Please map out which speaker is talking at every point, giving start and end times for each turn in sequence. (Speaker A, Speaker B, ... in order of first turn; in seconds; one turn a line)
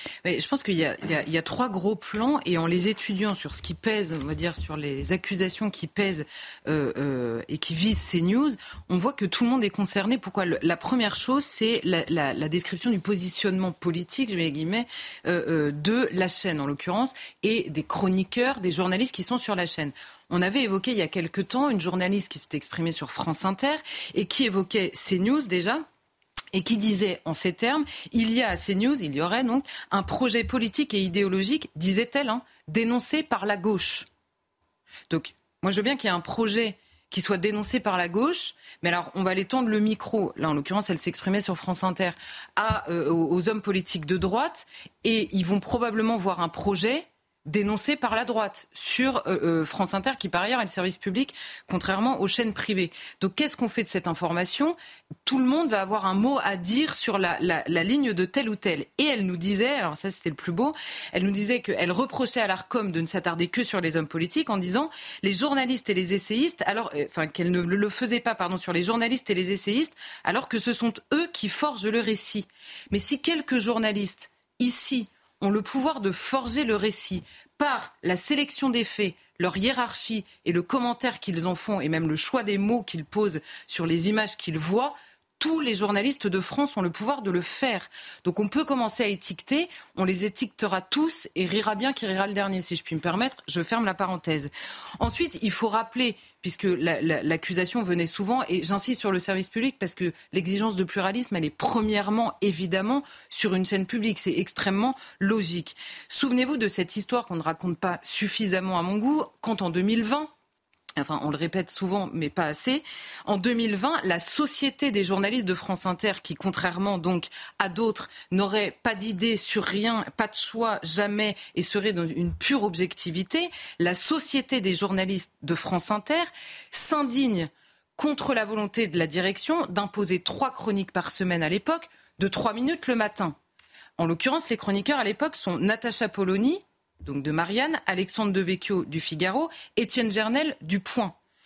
Speaker A: 0.2-25.9
Speaker A: 26.5-34.1
Speaker A: 35.1-110.3
Speaker A: 111.0-133.4
Speaker A: 134.0-141.2